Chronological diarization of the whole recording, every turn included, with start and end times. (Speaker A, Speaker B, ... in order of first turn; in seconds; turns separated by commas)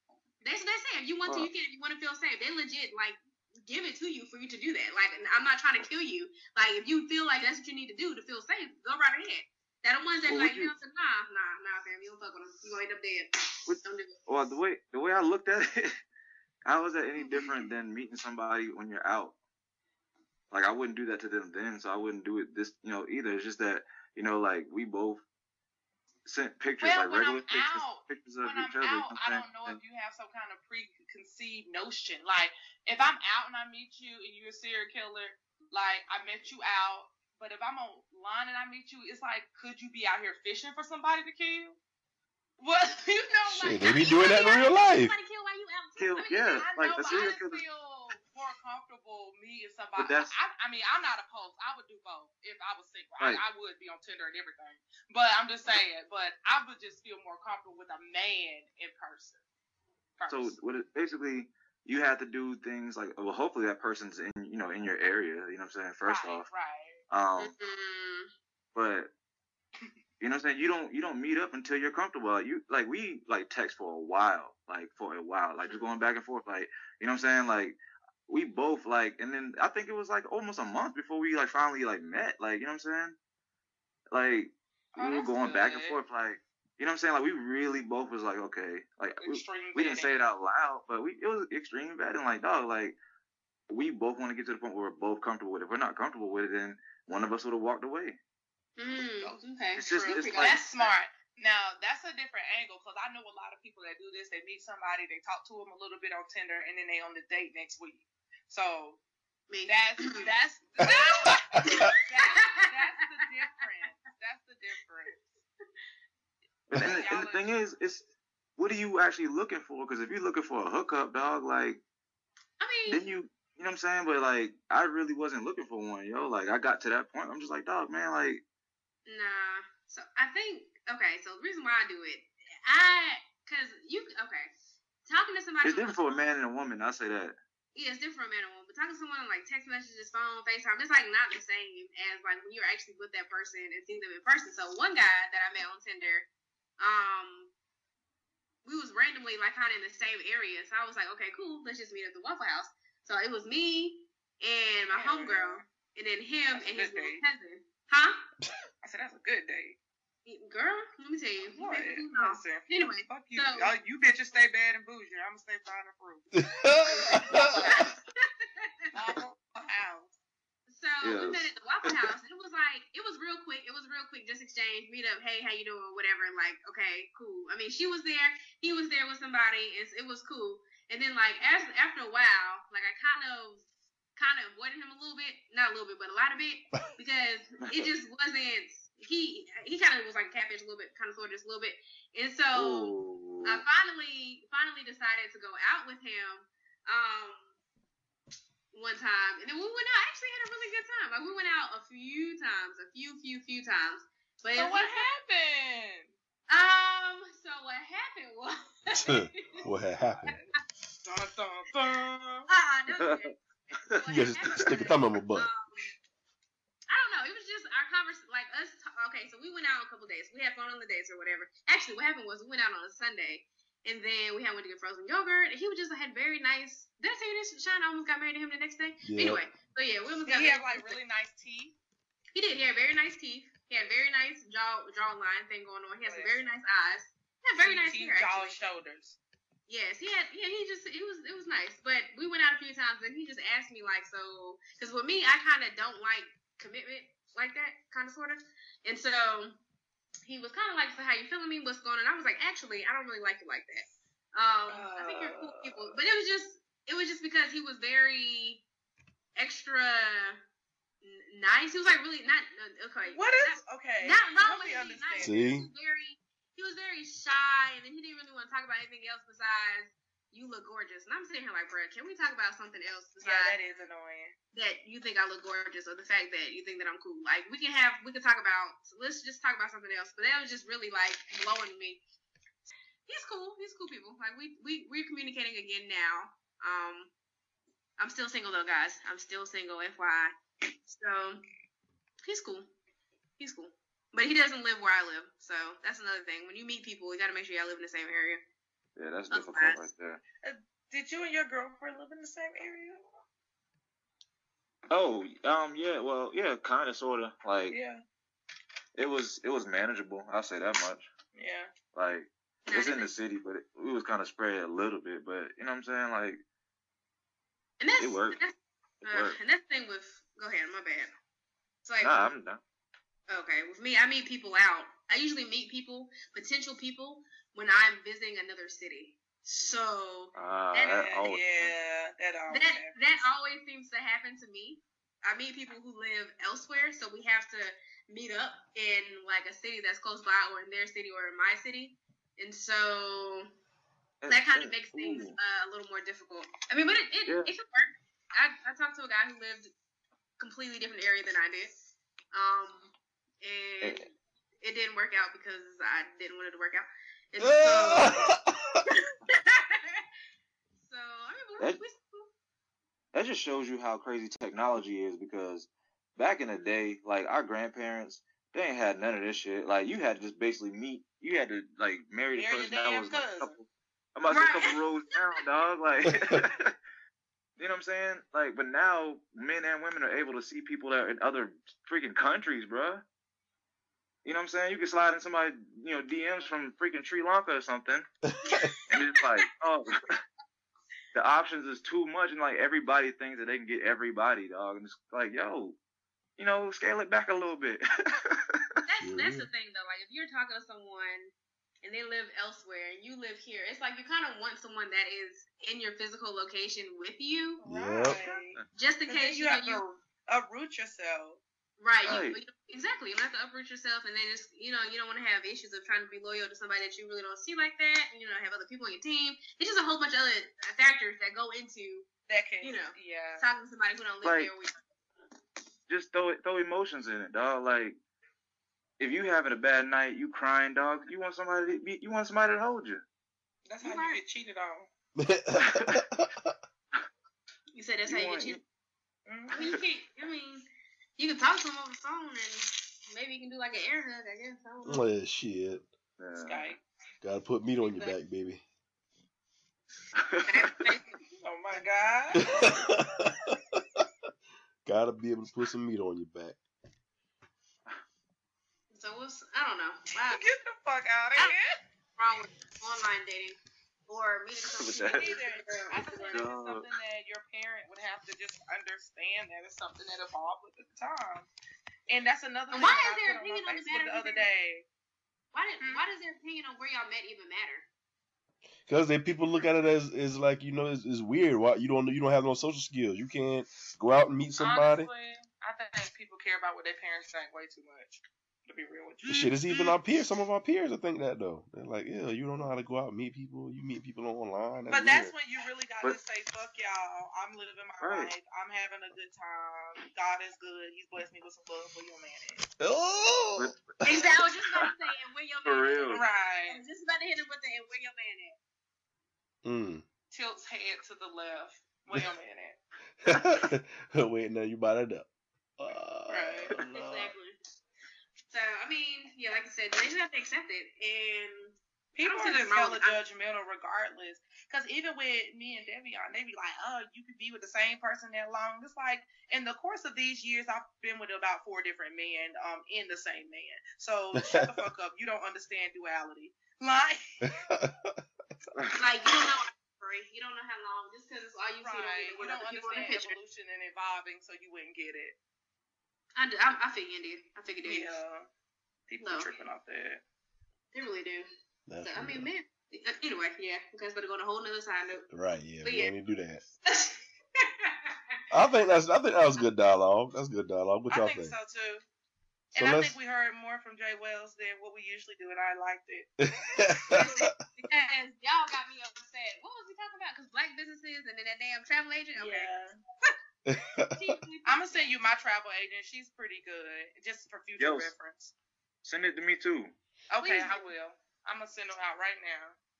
Speaker A: 0.4-14.6, Speaker B: 10.3-10.7, Speaker B: 13.7-16.0, Speaker B: 16.6-19.4, Speaker B: 20.5-25.2, Speaker B: 26.2-29.8, Speaker C: 26.8-41.8, Speaker C: 42.6-44.0, Speaker D: 43.5-45.1, Speaker A: 43.7-47.4, Speaker B: 46.0-47.6, Speaker C: 46.3-59.4, Speaker B: 50.0-50.3, Speaker C: 60.2-60.6, Speaker B: 60.3-66.5, Speaker C: 66.0-67.0, Speaker B: 67.1-67.5, Speaker A: 67.4-68.3, Speaker B: 68.7-69.1, Speaker B: 70.2-83.2, Speaker B: 84.1-93.0, Speaker C: 84.9-86.0, Speaker C: 89.2-90.3, Speaker B: 93.7-98.2, Speaker A: 98.8-100.7, Speaker C: 98.9-109.0, Speaker B: 99.7-100.9, Speaker A: 109.5-110.3, Speaker C: 109.7-115.2, Speaker D: 111.3-111.7, Speaker A: 111.6-112.9, Speaker B: 116.7-121.8, Speaker C: 116.7-117.5, Speaker A: 122.6-123.0, Speaker B: 122.9-128.4, Speaker A: 129.1-134.5, Speaker A: 135.1-136.3, Speaker B: 135.6-137.3, Speaker A: 137.7-146.3, Speaker A: 146.8-147.5, Speaker A: 148.6-158.2, Speaker C: 154.9-155.6, Speaker C: 156.5-157.2, Speaker C: 158.8-159.8, Speaker A: 160.2-163.7, Speaker C: 161.4-168.0, Speaker D: 166.4-167.5, Speaker A: 166.9-168.9, Speaker C: 168.9-170.1, Speaker A: 170.7-183.6, Speaker B: 171.0-171.5, Speaker A: 184.2-197.5, Speaker B: 192.5-193.6, Speaker A: 198.7-205.1, Speaker C: 204.6-206.1, Speaker A: 206.5-209.7, Speaker D: 208.9-210.3, Speaker C: 211.0-212.5, Speaker A: 212.5-215.9, Speaker B: 213.0-213.3, Speaker D: 214.1-215.5, Speaker A: 216.9-231.0, Speaker D: 229.0-229.4, Speaker C: 230.2-231.8, Speaker A: 232.3-238.6, Speaker C: 236.0-236.5, Speaker C: 237.6-239.2, Speaker A: 239.7-249.6, Speaker A: 250.2-258.6, Speaker C: 254.7-255.9, Speaker A: 259.4-260.4, Speaker A: 261.0-273.6, Speaker C: 263.0-265.3, Speaker D: 265.2-265.7, Speaker C: 273.2-274.3, Speaker A: 274.5-282.0, Speaker A: 283.1-287.1, Speaker A: 288.0-290.3, Speaker A: 290.9-291.4, Speaker A: 292.2-292.7, Speaker A: 293.4-298.4, Speaker B: 298.9-300.2, Speaker A: 299.3-299.9, Speaker C: 300.4-303.0, Speaker B: 304.9-307.8, Speaker C: 307.7-308.0, Speaker B: 308.9-311.1, Speaker C: 311.3-311.7, Speaker B: 311.9-316.4, Speaker A: 312.7-313.1, Speaker A: 317.8-321.1, Speaker B: 318.0-318.4, Speaker B: 319.1-319.4, Speaker A: 321.8-322.3, Speaker B: 322.0-322.6, Speaker A: 323.3-330.3, Speaker B: 330.3-331.7, Speaker C: 330.7-333.0, Speaker A: 332.5-343.5, Speaker B: 344.2-345.3, Speaker A: 344.3-349.7, Speaker A: 350.4-351.7, Speaker A: 352.3-358.3, Speaker D: 357.4-358.8, Speaker A: 359.1-360.0, Speaker A: 360.8-362.3, Speaker B: 363.1-376.7, Speaker C: 372.3-373.6, Speaker A: 374.3-375.2, Speaker B: 377.6-383.0, Speaker B: 384.2-388.1, Speaker D: 388.3-388.7, Speaker A: 388.4-388.9, Speaker B: 388.9-390.2, Speaker B: 391.1-395.8, Speaker B: 396.4-398.6, Speaker A: 398.8-407.6, Speaker D: 399.0-399.5, Speaker C: 407.6-411.4, Speaker D: 407.6-408.2, Speaker B: 408.1-408.6, Speaker A: 408.8-409.8, Speaker A: 411.8-422.1, Speaker B: 412.1-412.4, Speaker C: 422.3-423.5, Speaker A: 422.6-424.8, Speaker B: 424.2-424.5, Speaker B: 425.9-428.0, Speaker B: 429.0-433.0, Speaker C: 433.6-434.9, Speaker A: 433.8-434.2, Speaker D: 435.2-436.5, Speaker B: 435.6-436.0, Speaker A: 437.7-438.6, Speaker B: 438.1-438.6, Speaker C: 439.3-439.7, Speaker A: 439.5-445.1, Speaker D: 444.8-445.9, Speaker B: 446.2-446.7, Speaker C: 446.4-446.8, Speaker D: 447.2-448.6, Speaker A: 447.8-448.1, Speaker B: 450.2-450.5, Speaker A: 450.4-451.1, Speaker C: 451.4-452.5, Speaker D: 452.4-454.0, Speaker D: 454.8-456.6, Speaker A: 458.9-460.4, Speaker C: 460.3-461.8, Speaker A: 462.2-463.6, Speaker A: 464.1-466.5, Speaker B: 464.8-465.4, Speaker C: 465.0-471.5, Speaker B: 466.3-466.9, Speaker C: 472.1-474.9, Speaker A: 472.7-474.5, Speaker A: 475.5-477.9, Speaker C: 475.8-476.0, Speaker D: 478.9-485.1, Speaker C: 484.6-490.0, Speaker D: 489.3-495.3, Speaker C: 494.9-502.6, Speaker B: 498.0-498.3, Speaker D: 502.8-504.2, Speaker B: 503.6-504.3, Speaker A: 504.0-508.6, Speaker B: 505.6-506.2, Speaker C: 506.1-506.8, Speaker D: 509.6-510.0, Speaker C: 510.3-512.8, Speaker D: 513.2-517.3, Speaker C: 516.3-516.7, Speaker A: 516.9-517.5, Speaker A: 518.5-523.2, Speaker C: 522.1-537.5, Speaker D: 534.4-534.8, Speaker D: 537.4-538.2, Speaker A: 539.0-543.4, Speaker C: 541.8-545.4, Speaker A: 546.4-548.1, Speaker C: 547.8-548.5, Speaker C: 549.1-550.2, Speaker A: 549.2-549.5, Speaker A: 550.9-551.5, Speaker D: 551.9-552.5, Speaker A: 552.0-555.3, Speaker D: 555.3-556.6, Speaker A: 555.8-556.1, Speaker A: 556.9-558.1, Speaker D: 558.5-561.6, Speaker C: 561.1-562.0, Speaker C: 562.7-566.3, Speaker D: 562.8-563.2, Speaker D: 566.4-567.4, Speaker A: 567.1-572.7, Speaker C: 572.4-573.0, Speaker D: 573.6-574.4, Speaker A: 574.0-575.1, Speaker C: 574.6-578.5, Speaker B: 577.8-578.1, Speaker B: 579.0-579.9, Speaker C: 580.3-582.8, Speaker A: 580.4-580.9